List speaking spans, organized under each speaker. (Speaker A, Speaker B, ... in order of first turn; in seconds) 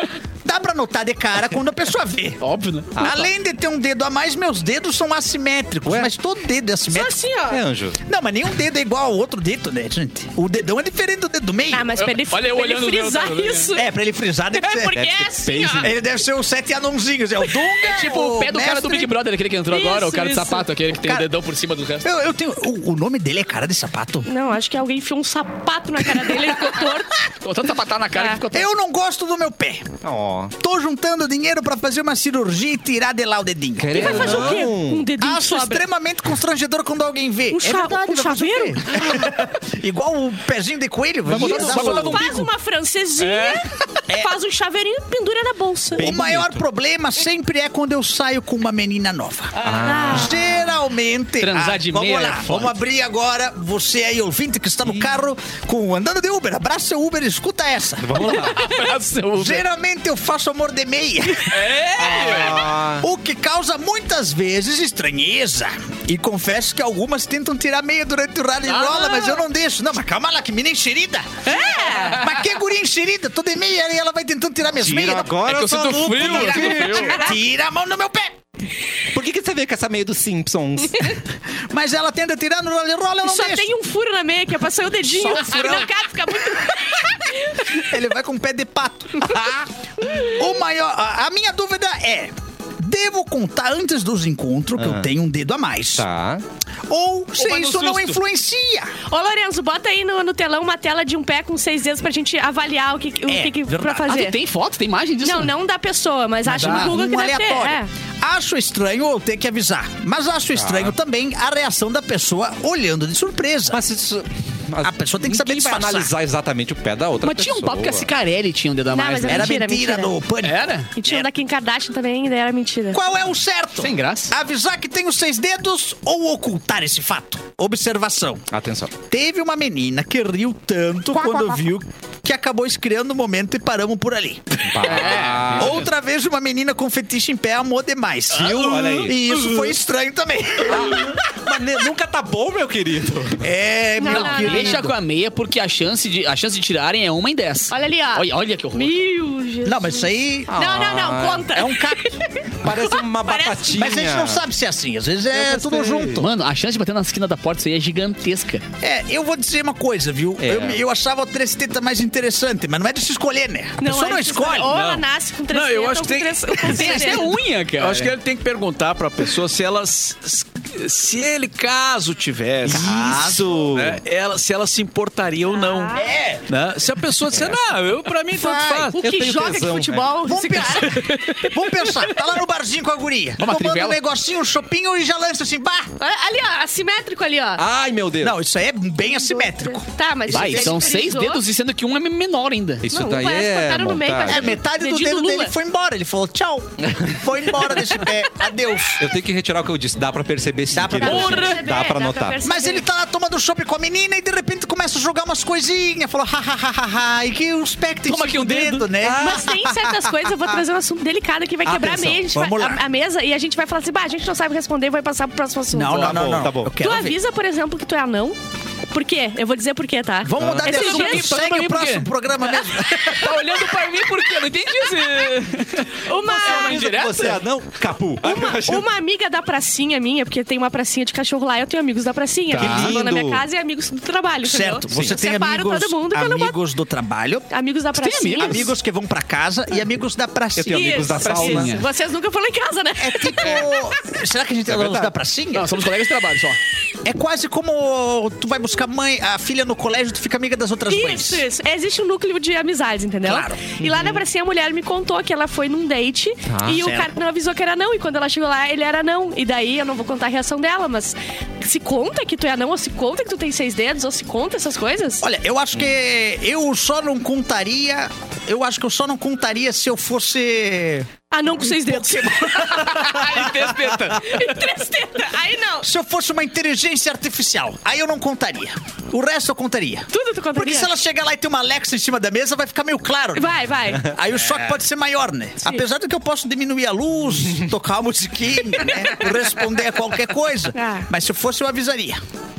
Speaker A: 0.4-2.4, 3.0-7.2, 8.0-11.9, 13.7-15.1, 15.7-19.1, 20.9-21.3, 22.0-24.3, 26.0-26.8, 28.5-29.9, 30.6-42.3, 44.1-44.4, 46.0-58.5, 59.4-61.7, 62.2-78.4, 81.7-83.7, 85.0-85.9, 87.7-89.6, 90.3-96.1, 96.9-99.0, 103.3-104.2, 106.5-113.8, 114.8-116.1, 119.2-121.3, 122.9-128.5, 129.1-141.1, 143.4-144.9, 149.7-150.6, 151.5-152.2, 153.7-156.3, 158.8-164.8, 172.7-173.7, 175.9-176.4, 178.3-179.0, 180.2-185.9, 188.2-190.9, 194.2-199.2, 200.7-201.6, 202.4-210.6, 212.3-212.8, 215.7-217.2, 220.2-223.4, 232.6-232.9, 234.4-237.5, 238.4-241.5, 243.0-245.9, 247.0-251.5, 253.2-253.6, 256.7-257.1, 265.2-271.1, 271.7-273.7, 275.8-292.2
Speaker B: 2.4-3.1, 11.9-13.7, 17.8-22.1, 27.4-28.7, 41.3-42.5, 43.2-43.7, 51.4-52.8, 58.2-59.6, 61.4-62.7, 68.7-69.1, 75.4-77.2, 97.4-98.2, 104.0-105.5, 106.5-106.9, 117.2-119.6, 120.4-120.9, 123.8-124.3, 134.8-135.9, 138.6-139.1, 144.0-148.9, 156.2-158.6, 166.7-168.1, 183.4-184.0, 190.3-192.9, 201.0-201.6, 208.1-208.9, 215.8-216.2, 220.7-227.4, 237.9-238.7, 241.2-241.9, 245.5-246.6, 272.9-274.5
Speaker C: 3.0-3.3, 5.9-6.1, 7.5-8.0, 14.9-15.9, 30.0-30.5, 33.8-35.1, 46.0-46.6, 49.6-50.6, 58.0-58.6, 62.0-63.1, 74.8-77.2, 79.1-81.2, 94.8-95.1, 96.0-96.4, 110.5-111.0, 113.7-118.1, 128.5-128.9, 134.7-135.8, 138.3-139.7, 140.7-143.4, 150.5-151.5, 152.6-154.4, 155.3-156.2, 160.4-160.8, 172.7-174.0, 177.3-177.6, 179.0-180.1, 187.6-188.4, 192.8-194.5, 196.8-197.2, 199.0-202.4, 209.0-209.5, 211.7-212.2, 216.0-216.7, 220.4-220.7, 226.3-228.8, 232.5-233.4, 234.9-235.2, 240.6-241.8, 244.7-245.1, 253.8-254.2, 256.5-256.9
Speaker D: 6.9-7.6, 11.7-13.9, 14.5-15.9, 19.7-20.7, 24.3-27.3, 33.9-35.9, 37.5-39.1, 41.3-46.1, 49.8-50.4, 71.5-72.3, 76.9-77.3, 83.2-87.8, 90.0-90.4, 99.1-104.4, 105.2-107.9, 118.9-120.2, 121.0-123.0, 144.0-144.9, 147.7-154.0, 163.8-167.3, 175.5-176.1, 178.7-182.0, 186.0-187.6, 189.1-191.4, 192.8-195.5, 201.0-202.8, 209.2-216.3, 216.8-218.4, 218.9-221.4, 224.8-225.3, 226.0-226.9, 228.2-236.6, 237.5-238.7, 240.7-243.8, 250.9-265.2, 271.3-273.3, 274.1-275.9, 280.1-280.9, 283.4-284.1, 288.8-289.3, 290.7-291.1
Speaker E: 164.7-167.1, 167.8-173.0, 173.7-179.0